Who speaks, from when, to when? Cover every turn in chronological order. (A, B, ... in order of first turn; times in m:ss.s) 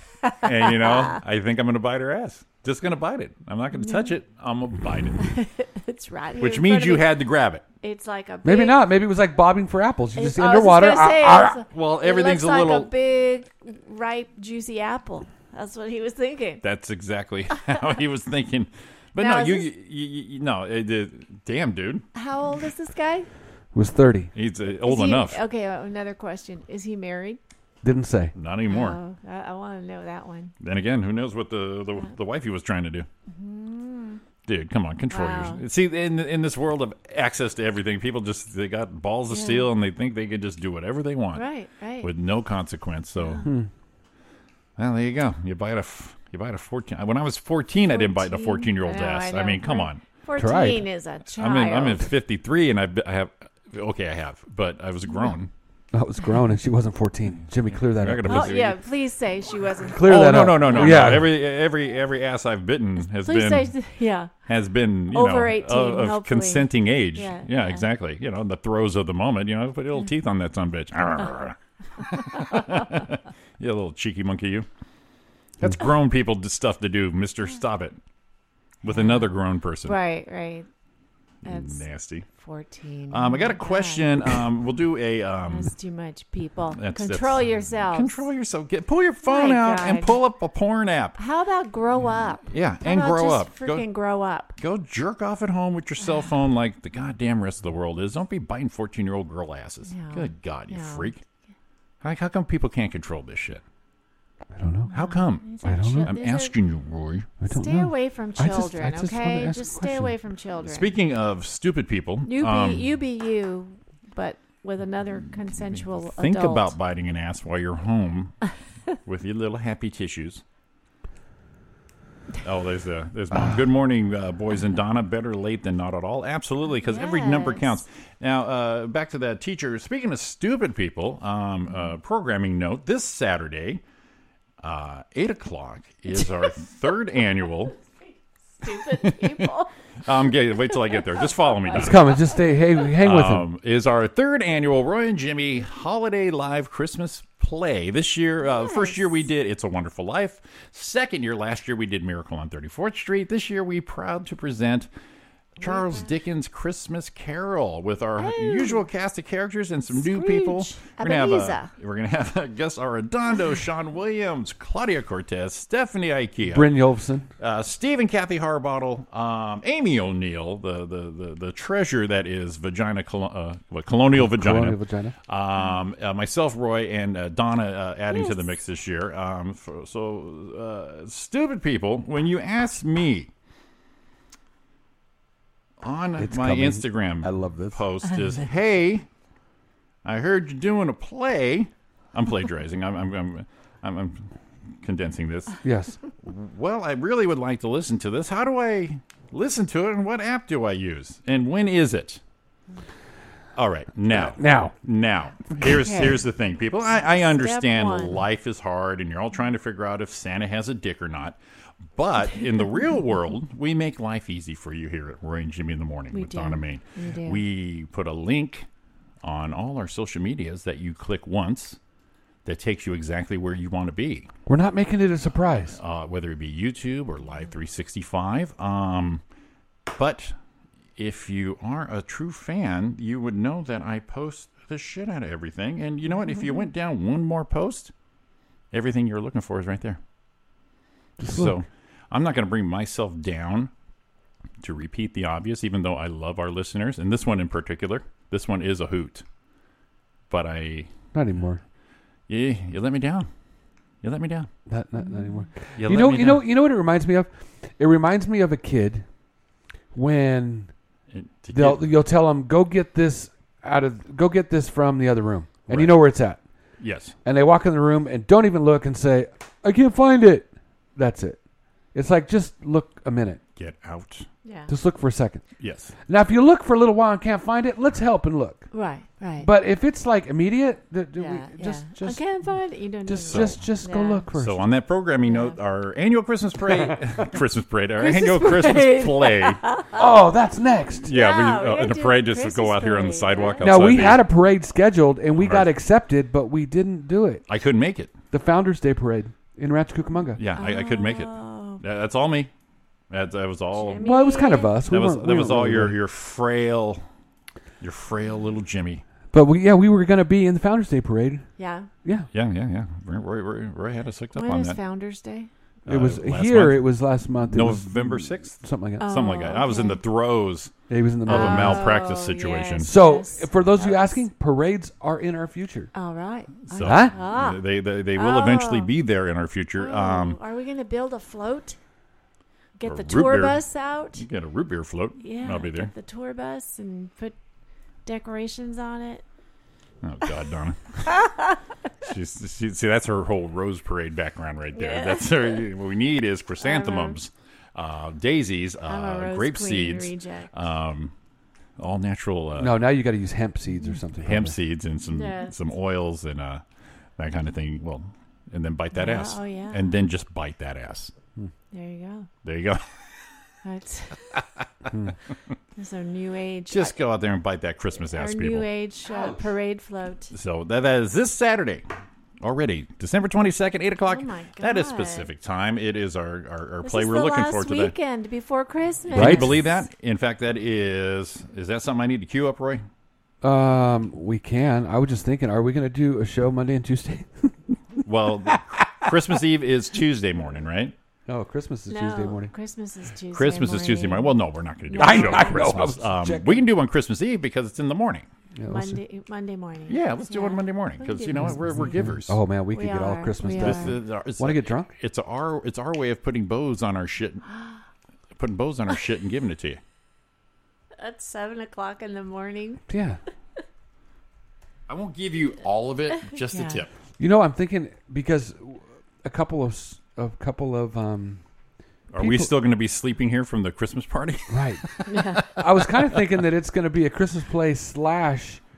0:00.2-0:01.2 A
0:00.4-0:05.3 B
0:03.8-0:04.1 A
0:05.2-0:07.1 A
0:06.4-0:07.6 B
0:07.8-0:08.9 A
0:08.4-0:11.6 C
0:10.2-0:16.6 A
0:11.7-0:12.9 B
0:16.6-0:22.0 B
0:19.2-0:19.7 A
0:22.2-0:23.3 A
0:23.7-0:24.3 C
0:24.4-0:25.4 B
0:24.8-0:27.4 A
0:27.8-0:28.3 C
0:28.4-0:29.0 B
0:28.7-0:30.5 A
0:30.6-0:33.1 B
0:33.3-0:34.2 A
0:34.5-0:41.4 B
0:35.1-0:35.6 A
0:39.3-0:39.7 A
0:41.4-0:42.1 A
0:42.0-0:43.5 B
0:43.2-0:43.5 A
0:43.4-0:43.7 C
0:44.8-0:50.0 B
0:47.9-0:52.1 A
0:50.4-0:50.8 C
0:51.3-0:55.5 B
0:55.9-0:58.6 C
0:57.8-0:58.8 B
0:58.3-1:01.2 A
0:59.9-1:01.4 C
1:00.0-1:03.7 B
1:03.1-1:04.3 A
1:04.5-1:14.7 B
1:05.1-1:07.8 A
1:15.6-1:18.0 B
1:18.8-1:20.0 B
1:18.9-1:19.3 A
1:19.8-1:20.7 A
1:21.4-1:22.3 B
1:21.4-1:24.1 A
1:23.1-1:25.7 B
1:25.5-1:28.3 A
1:26.8-1:31.2 B
1:29.2-1:30.2 A
1:31.2-1:34.6 A
1:32.5-1:33.9 B
1:34.6-1:41.2 B
1:39.9-1:41.2 A
1:42.0-1:43.6 B
1:44.5-1:44.9 C
1:44.9-1:46.6 A
1:44.9-1:47.3 B
1:45.6-1:46.1 C
1:47.4-1:50.1 C
1:47.5-1:50.9 A
1:50.6-1:52.9 B
1:52.2-1:56.8 A
1:56.2-1:58.4 B
1:59.0-2:00.4 B
2:02.4-2:13.8 B
2:06.8-2:07.8 A
2:14.6-2:17.8 B
2:16.2-2:16.6 A
2:18.6-2:19.7 A
2:18.7-2:19.5 B
2:20.0-2:22.1 B
2:21.7-2:21.9 A
2:21.7-2:23.5 C
2:23.0-2:34.9 B
2:28.4-2:29.0 A
2:35.6-2:46.8 B
2:35.6-2:36.1 A
2:38.2-2:38.9 A
2:39.9-2:41.7 A
2:46.5-2:47.3 C
2:47.4-3:03.3 B
2:54.2-2:55.2 C
2:58.1-2:58.5 A
3:05.8-3:09.0 B
3:06.2-3:07.8 C
3:10.0-3:15.6 B
3:15.6-3:16.0 C
3:16.2-3:22.2 B
3:23.6-3:31.4 B
3:24.1-3:24.7 C
3:25.6-3:26.2 A
3:27.0-3:28.2 A
3:31.9-3:38.7 B
3:36.1-3:37.4 A
3:39.2-3:41.8 B
3:42.4-3:44.3 B
3:44.5-3:45.8 C
3:45.6-3:49.2 B
3:49.9-3:50.3 B
3:51.0-3:57.9 B
3:58.7-4:00.0 B
4:01.2-4:01.6 C
4:01.2-4:03.7 B
4:04.6-4:09.2 B
4:10.3-4:10.9 B
4:11.1-4:11.6 C
4:12.3-4:13.3 B
4:14.0-4:14.5 B
4:14.7-4:19.1 C
4:15.0-4:15.5 A
4:15.8-4:16.5 B
4:19.9-4:20.7 C
4:21.1-4:21.9 B
4:21.5-4:26.4 C
4:25.7-4:26.1 B
4:26.8-4:27.2 B
4:27.2-4:31.4 C
4:31.9-4:33.4 C
4:33.6-4:34.3 B
4:34.4-4:34.7 A
4:34.7-4:35.4 C
4:35.6-4:35.9 B
4:36.1-4:38.7 C
4:38.7-4:39.5 A
4:39.4-4:42.4 C
4:41.2-4:44.2 A
4:43.1-4:44.6 C
4:43.3-4:43.6 B
4:44.4-4:49.6 B
4:45.3-4:45.6 A
4:48.0-4:50.0 A
4:50.0-4:51.1 C
4:51.0-4:54.2 B
4:51.1-4:53.8 A
4:53.6-4:57.4 C
4:55.4-4:55.7 B
4:57.5-4:58.1 B
4:58.3-5:00.4 C
5:00.4-5:02.5 B
5:00.6-5:01.8 A
5:03.1-5:04.1 B
5:03.8-5:04.8 A
5:04.0-5:06.0 C
5:04.9-5:07.0 B
5:07.8-5:09.0 B
5:09.3-5:11.5 C
5:11.6-5:11.9 A
5:12.3-5:14.8 B
5:14.4-5:15.5 A
5:15.9-5:16.9 B
5:15.9-5:19.1 C
5:17.5-5:20.7 B
5:19.0-5:20.0 A
5:20.9-5:22.0 C
5:21.2-5:22.9 B
5:21.3-5:24.2 A
5:22.8-5:25.9 C
5:25.9-5:27.6 A
5:26.7-5:30.4 B
5:26.8-5:27.1 C
5:28.2-5:28.9 A
5:29.8-5:31.8 A
5:32.8-5:34.2 A
5:32.8-5:33.6 B
5:34.2-5:35.9 B
5:35.2-5:37.4 A
5:38.0-5:39.2 A
5:40.0-5:41.3 B
5:42.0-5:51.1 B
5:44.8-5:45.6 A
5:46.6-5:47.2 A
5:48.9-5:50.5 A
5:51.8-5:52.8 B
5:52.6-5:54.6 C
5:54.2-5:56.6 B
5:55.1-5:55.5 A
5:57.2-6:01.1 B
5:58.9-5:59.9 A
6:01.7-6:02.3 A
6:02.4-6:02.8 B
6:03.6-6:04.2 A
6:05.8-6:07.0 A
6:06.7-6:08.7 B
6:08.1-6:10.3 A
6:10.3-6:11.8 B
6:12.4-6:17.9 B
6:14.1-6:15.3 A
6:16.8-6:19.8 A
6:19.1-6:22.8 B
6:19.1-6:19.6 C
6:23.4-6:29.2 C
6:28.0-6:30.9 B
6:31.3-6:32.5 C
6:31.9-6:35.8 A
6:33.3-6:38.3 B
6:35.0-6:36.7 C
6:38.6-6:39.0 C
6:38.7-6:42.0 A
6:39.9-6:42.4 B
6:41.4-6:44.9 C
6:42.7-6:43.9 A
6:43.6-6:47.5 B
6:48.4-6:49.8 B
6:51.0-6:52.8 A
6:52.9-6:53.2 C
6:54.9-6:56.9 B
6:56.4-6:56.8 A
6:57.2-7:01.4 C
7:02.1-7:05.9 B
7:02.2-7:02.5 C
7:04.5-7:04.8 C
7:05.1-7:05.4 A
7:05.4-7:08.6 C